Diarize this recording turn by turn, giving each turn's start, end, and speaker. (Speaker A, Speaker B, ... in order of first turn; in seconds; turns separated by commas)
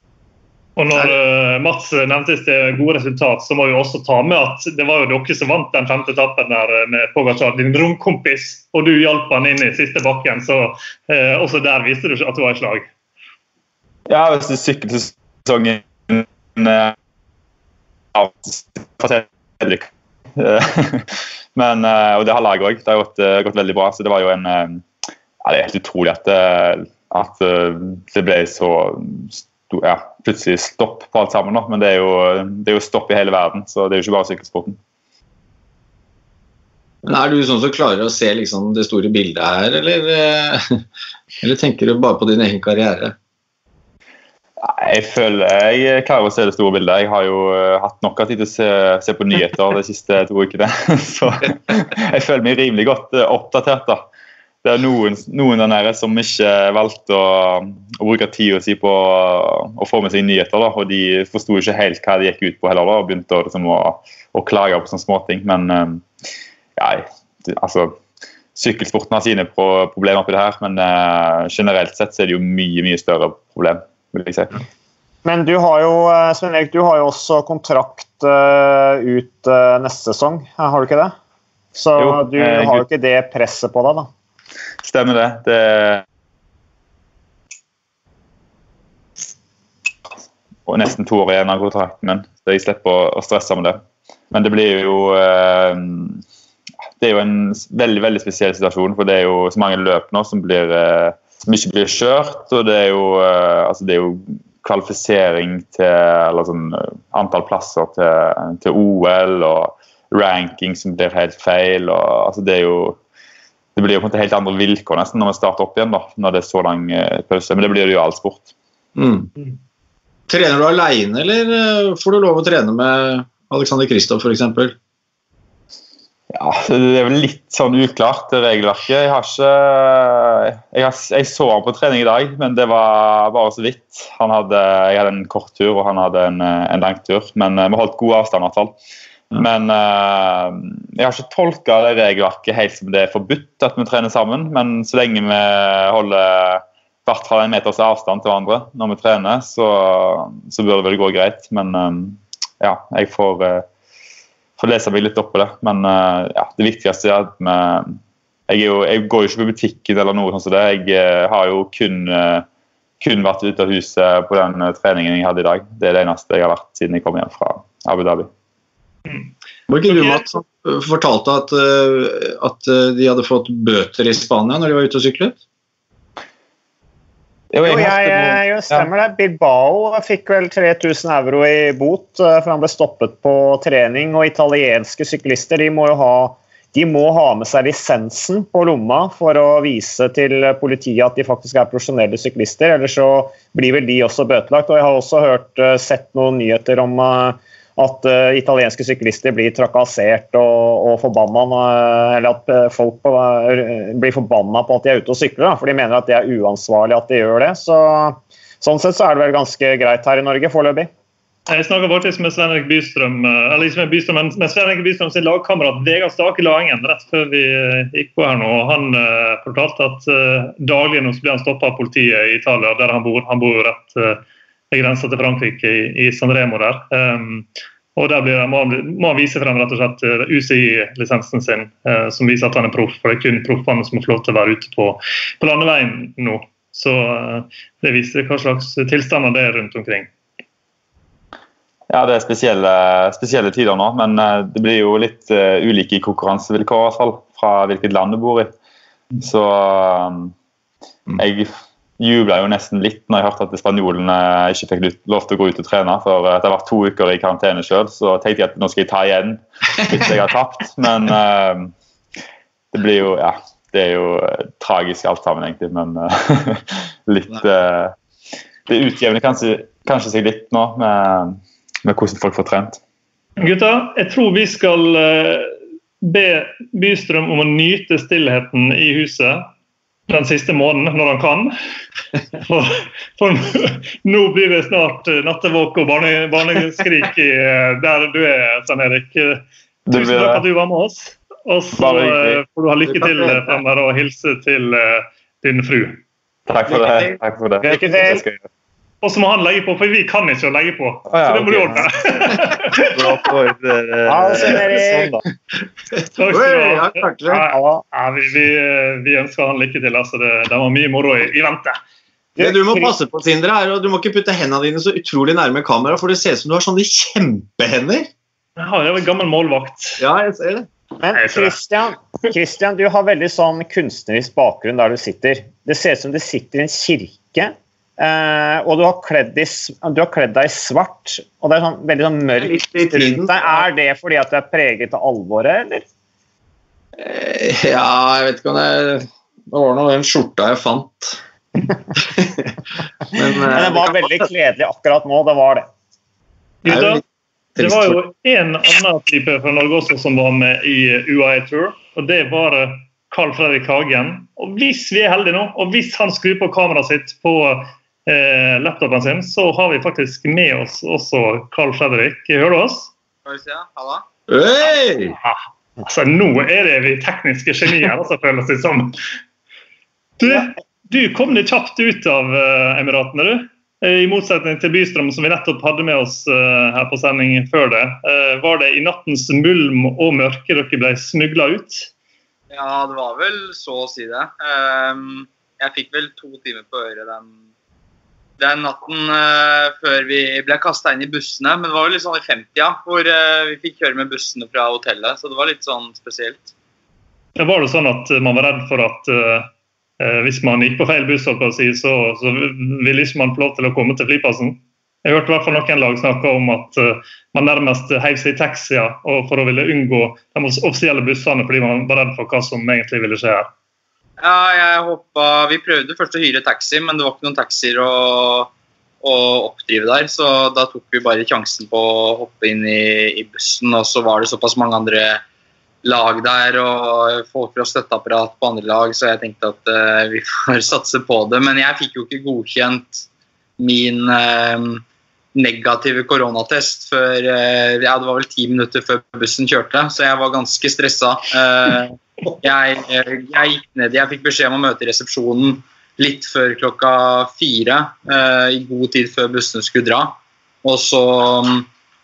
Speaker A: 0.8-12.9, Speaker B: 14.1-16.9, Speaker B: 18.1-24.8, Speaker B: 25.4-34.8, Speaker C: 37.0-40.6, Speaker C: 41.4-43.1, Speaker B: 44.6-54.0, Speaker B: 54.6-66.0, Speaker B: 66.8-68.0, Speaker B: 68.5-74.5, Speaker D: 75.2-81.1, Speaker D: 81.7-84.1, Speaker B: 82.0-82.8, Speaker B: 84.8-86.0, Speaker B: 90.7-96.2, Speaker B: 97.0-113.0, Speaker B: 113.7-118.5, Speaker C: 119.0-119.3, Speaker C: 120.3-124.8, Speaker B: 126.3-138.7, Speaker B: 139.3-153.7, Speaker B: 154.6-162.4, Speaker B: 163.0-168.3, Speaker C: 169.7-175.4, Speaker A: 169.9-170.2, Speaker B: 177.5-178.9, Speaker D: 177.6-210.9, Speaker A: 211.5-240.1, Speaker B: 241.9-248.5, Speaker B: 249.2-250.3, Speaker B: 251.2-261.7, Speaker B: 262.7-267.9, Speaker B: 268.7-272.8, Speaker A: 273.4-279.5, Speaker A: 280.1-281.5, Speaker A: 282.4-296.0, Speaker B: 289.9-290.4, Speaker B: 291.8-293.5, Speaker B: 296.5-298.4, Speaker C: 296.7-297.2, Speaker D: 297.6-298.2, Speaker A: 299.0-302.9, Speaker B: 301.1-301.9, Speaker B: 302.8-305.2, Speaker D: 304.1-305.1, Speaker A: 306.2-311.8, Speaker C: 306.2-307.4, Speaker D: 307.5-307.8, Speaker D: 312.4-312.9, Speaker C: 312.4-318.1, Speaker A: 318.6-320.0, Speaker C: 320.0-320.7, Speaker D: 321.0-335.8, Speaker A: 321.1-321.6, Speaker C: 332.4-333.6, Speaker C: 337.0-341.2, Speaker C: 341.9-344.3, Speaker D: 343.5-345.7, Speaker A: 346.6-347.0, Speaker C: 346.6-347.0, Speaker C: 347.6-348.0, Speaker A: 347.6-362.9, Speaker E: 363.2-364.0, Speaker C: 364.3-365.2, Speaker A: 365.2-368.9, Speaker A: 370.2-381.9, Speaker E: 382.5-387.3, Speaker E: 388.4-396.5, Speaker A: 397.4-399.5, Speaker A: 400.0-413.5, Speaker E: 414.2-418.5, Speaker E: 419.0-425.2, Speaker E: 425.8-433.0, Speaker E: 433.6-434.8, Speaker E: 435.3-451.7